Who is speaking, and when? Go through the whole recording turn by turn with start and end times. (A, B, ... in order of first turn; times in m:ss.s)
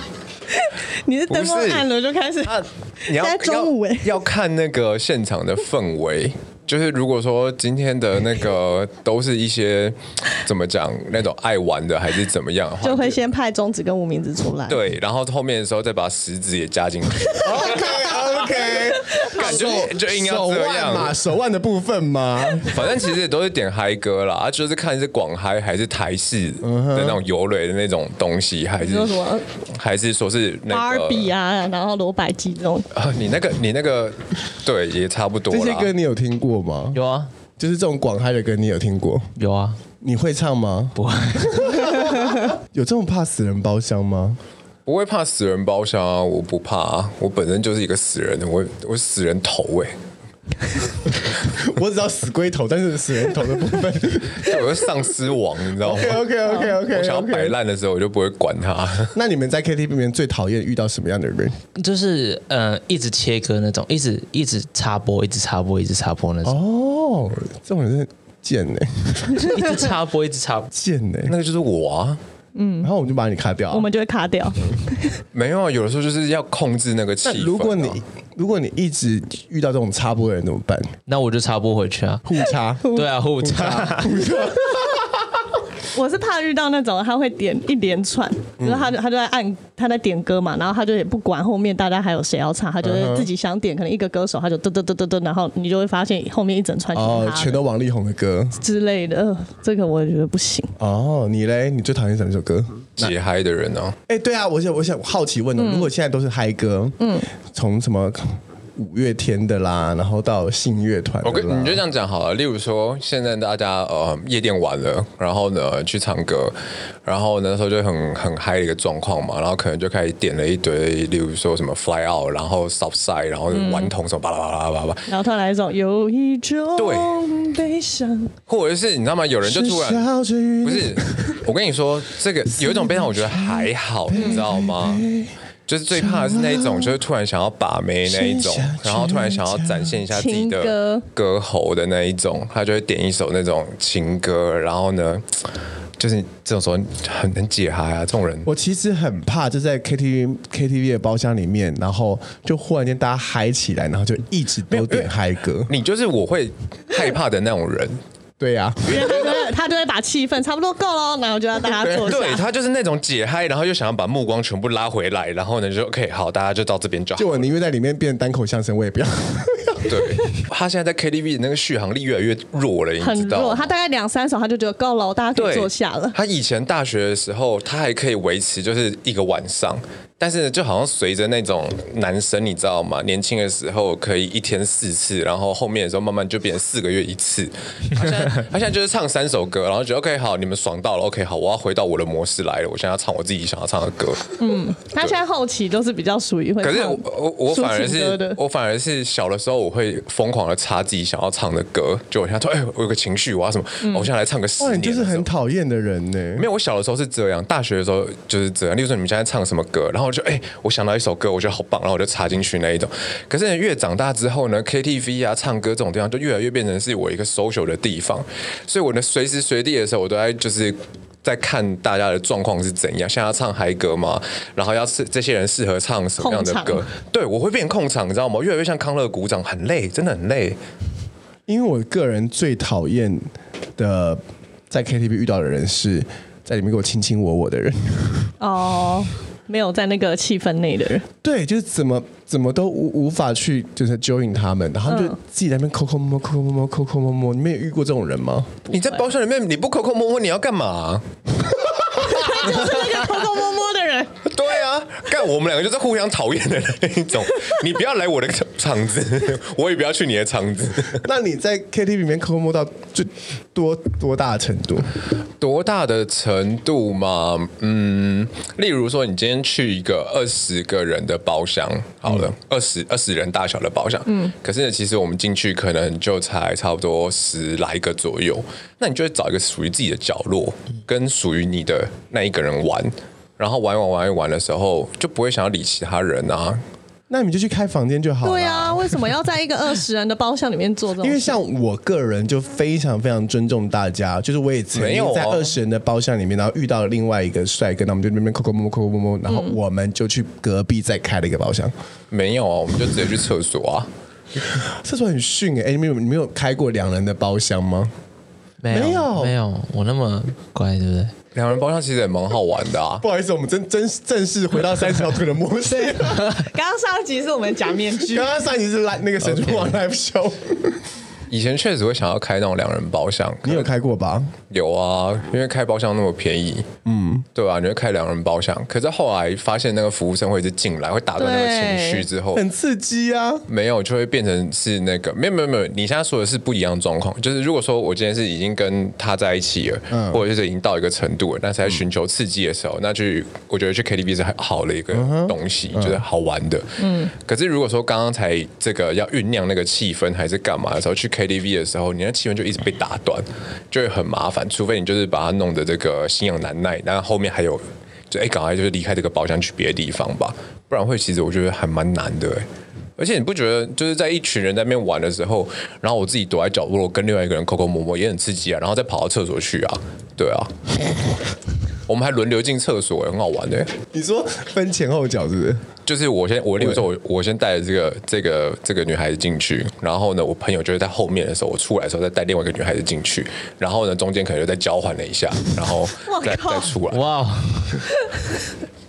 0:00.5-0:04.1 A
0:01.3-0:01.8 B
0:02.4-0:13.2 B
0:12.8-0:14.8 A
0:14.7-0:18.2 B
0:17.4-0:17.9 A
0:17.4-0:22.8 C
0:18.9-0:19.8 A
0:19.2-0:21.2 B
0:22.7-0:29.2 B
0:26.6-0:27.2 C
0:28.8-0:29.4 A
0:29.7-0:31.3 B
0:30.7-0:32.8 A
0:32.9-0:35.9 B
0:35.5-0:37.0 C
0:36.9-0:37.3 D
0:37.6-0:39.3 C
0:39.4-0:39.8 D
0:40.0-0:44.4 C
0:40.9-0:41.9 D
0:44.8-0:49.9 B
0:51.4-0:54.6 C
0:54.4-0:59.1 B
0:55.8-0:57.6 C
0:59.1-1:01.6 C
1:01.7-1:06.6 D
1:06.4-1:09.8 C
1:09.4-1:10.7 D
1:10.7-1:11.3 C
1:11.3-1:12.2 B
1:12.5-1:12.9 A
1:12.8-1:13.9 C
1:13.7-1:15.2 A
1:15.3-1:18.0 B
1:17.2-1:20.9 C
1:21.1-1:22.3 D
1:22.2-1:22.9 C
1:22.8-1:24.2 D
1:23.4-1:25.4 C
1:25.9-1:37.6 A
1:28.6-1:28.9 C
1:32.8-1:33.3 C
1:36.9-1:38.6 C
1:38.6-1:40.7 A
1:40.8-1:43.1 C
1:43.0-1:44.0 B
1:44.1-1:51.8 C
1:45.6-1:45.9 A
1:47.0-1:47.3 A
1:51.2-2:05.1 B
2:03.5-2:03.9 A
2:05.1-2:08.3 A
2:06.8-2:07.2 B
2:08.5-2:10.1 B
2:09.4-2:11.4 C
2:10.6-2:15.0 B
2:12.5-2:15.3 C
2:14.2-2:14.4 A
2:15.7-2:25.4 B
2:15.9-2:17.0 C
2:18.0-2:20.0 C
2:20.1-2:21.0 A
2:26.0-2:28.5 B
2:28.4-2:35.7 C
2:34.7-2:35.1 B
2:35.7-2:38.0 B
2:38.4-2:39.2 C
2:38.9-2:42.4 A
2:41.8-2:47.4 B
2:47.2-2:50.2 C
2:49.8-2:53.7 B
2:53.0-2:56.2 A
2:55.3-3:15.2 B
3:14.4-3:18.4 A
3:16.6-3:25.3 B
3:23.8-3:24.1 A
3:24.6-3:26.5 C
3:26.4-3:50.6 B
3:46.2-3:46.8 A
3:51.5-3:53.2 C
3:53.8-3:58.3 C
3:58.4-4:01.0 A
4:01.2-4:08.7 C
4:04.9-4:05.1 A
4:08.7-4:11.0 B
4:12.0-4:14.2 A
4:12.4-4:13.1 B
4:14.2-4:21.0 B
4:20.9-4:24.9 C
4:25.4-4:46.6 B
4:34.1-4:34.3 A
4:47.1-4:49.0 C
4:48.2-4:51.4 A
4:51.0-5:01.7 C
4:54.7-4:55.5 B
4:59.3-4:59.6 A
5:02.1-5:03.9 B
5:04.5-5:07.9 C
5:08.6-5:11.1 D
5:08.7-5:09.3 C
5:11.3-5:13.0 B
5:13.0-5:16.4 C
5:15.7-5:18.3 A
5:18.0-5:20.8 C
5:19.2-5:19.8 D
5:21.3-5:23.7 B
5:23.4-5:24.3 C
5:24.5-5:26.7 B
5:26.8-5:27.2 C
5:27.3-5:32.4 B
5:31.2-5:32.0 A
5:32.3-5:33.4 C
5:33.5-6:02.4 B
5:39.9-5:40.2 C
5:44.9-5:46.0 C
5:46.8-5:47.1 A
6:03.0-6:11.2 B
6:11.9-6:13.7 B
6:13.9-6:15.7 C
6:15.8-6:27.0 B
6:26.0-6:26.8 A
6:26.9-6:27.9 D
6:28.0-6:28.4 A